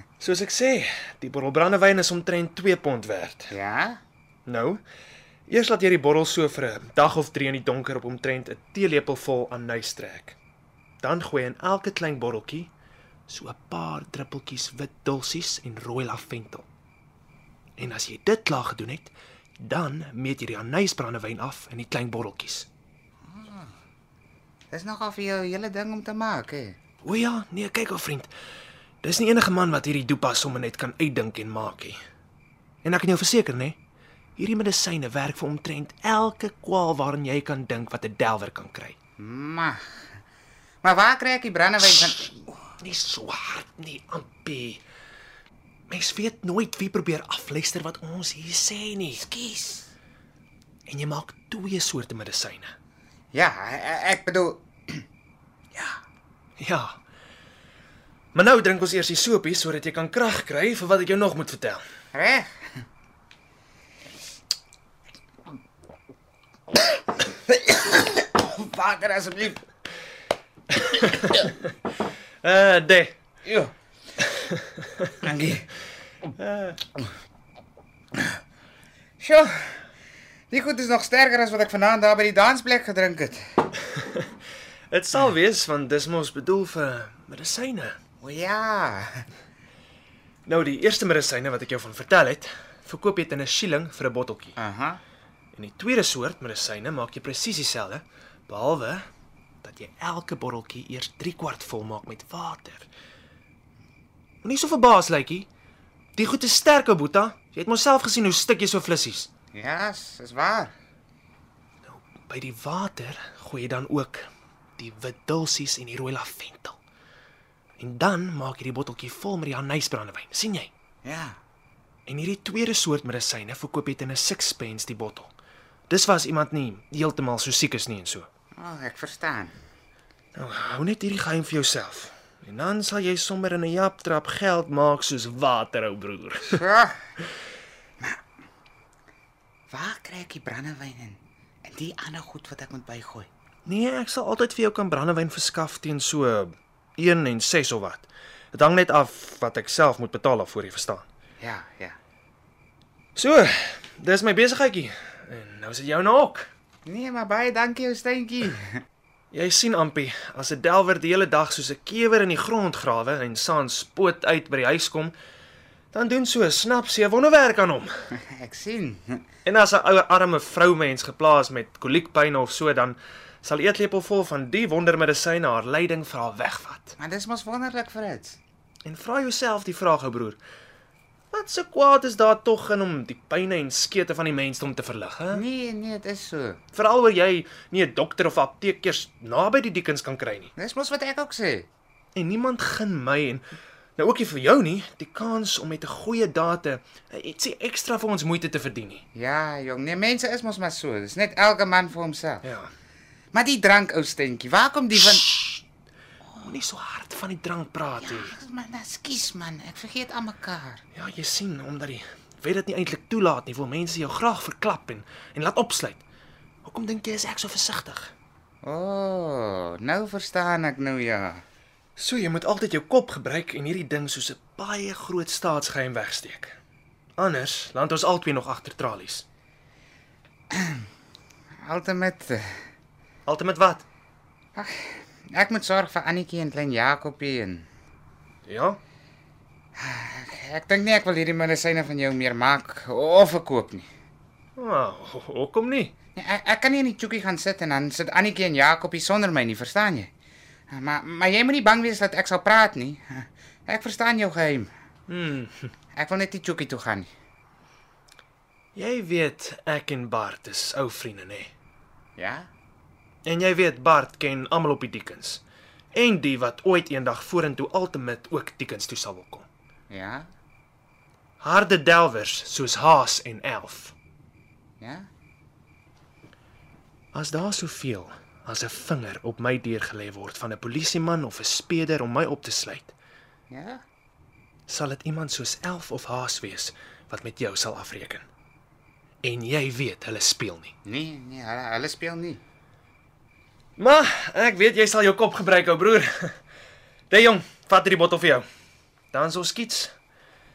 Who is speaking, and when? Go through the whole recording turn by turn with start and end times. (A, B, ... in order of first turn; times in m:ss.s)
0:00.2-0:03.5 A
0:03.5-0:04.0 B
0:04.5-0:04.8 A
0:05.5-0:10.4 A
0:11.0-0:12.7 A
0:13.3-0:16.7 A
0:17.8-0:22.7 A
0:23.2-0:23.8 B
0:24.7-0:26.8 B
0:27.0-0:28.3 A
0:29.0-0:32.0 A
0:32.8-0:33.8 A
0:34.4-0:38.9 A
0:39.2-0:39.8 B
0:40.8-0:42.7 B
0:42.8-0:44.8 A
0:45.9-0:49.2 A
0:49.2-0:49.9 B
0:50.9-0:52.7 A
0:53.3-0:55.0 B
0:56.6-0:56.9 A
0:58.3-1:01.8 A
1:02.1-1:02.5 B
1:06.8-1:09.6 B
1:12.4-1:13.1 A
1:13.4-1:13.7 B
1:15.2-1:15.7 B
1:19.2-1:19.8 B
1:20.5-1:23.7 B
1:24.9-1:28.0 A
1:28.2-1:29.2 B
1:30.5-1:34.6 A
1:34.6-1:35.0 B
1:35.5-1:39.0 A
1:39.6-1:42.9 A
1:44.4-1:45.5 A
1:46.2-1:49.3 A
1:49.5-1:50.7 B
1:51.9-1:54.2 A
1:54.8-1:56.8 A
1:57.8-2:00.7 A
2:01.0-2:01.4 B
2:02.1-2:05.3 A
2:05.9-2:08.3 A
2:08.6-2:09.5 B
2:10.4-2:16.5 A
2:16.5-2:17.0 B
2:19.7-2:23.3 B
2:23.7-2:31.0 A
2:31.4-2:31.9 B
2:34.0-2:36.5 A
2:36.8-2:38.8 B
2:39.3-2:45.1 A
2:45.9-2:47.9 A
2:48.1-2:49.2 B
2:49.4-2:56.9 A
2:57.0-2:58.4 B
2:58.9-3:00.4 A
3:01.3-3:05.4 A
3:05.3-3:06.6 B
3:06.8-3:10.5 A
3:10.6-3:11.7 B
3:12.2-3:13.4 A
3:14.0-3:19.0 A
3:19.1-3:22.4 B
3:23.3-3:25.4 B
3:26.5-3:28.3 A
3:28.0-3:30.8 B
3:31.0-3:36.0 A
3:36.6-3:38.1 A
3:38.6-3:41.4 B
3:42.0-3:46.6 A
3:47.2-3:49.2 A
3:50.5-3:50.8 B
3:51.6-3:52.4 B
3:53.3-3:53.8 A
3:54.6-3:57.7 B
3:58.5-3:58.8 A
3:59.8-4:03.9 B
4:04.6-4:05.9 A
4:06.2-4:10.1 B
4:10.7-4:14.7 B
4:15.1-4:15.6 A
4:16.0-4:17.1 B
4:18.8-4:21.5 A
4:22.2-4:22.5 B
4:23.3-4:25.4 A
4:25.9-4:29.4 A
4:29.9-4:30.3 B
4:31.4-4:33.9 A
4:34.8-4:35.1 B
4:37.1-4:42.9 A
4:43.5-4:43.8 B
4:44.7-4:48.2 A
4:49.2-4:50.7 A
4:50.8-4:52.4 B
4:53.8-4:56.0 A
4:57.1-4:58.4 A
4:59.1-4:59.9 A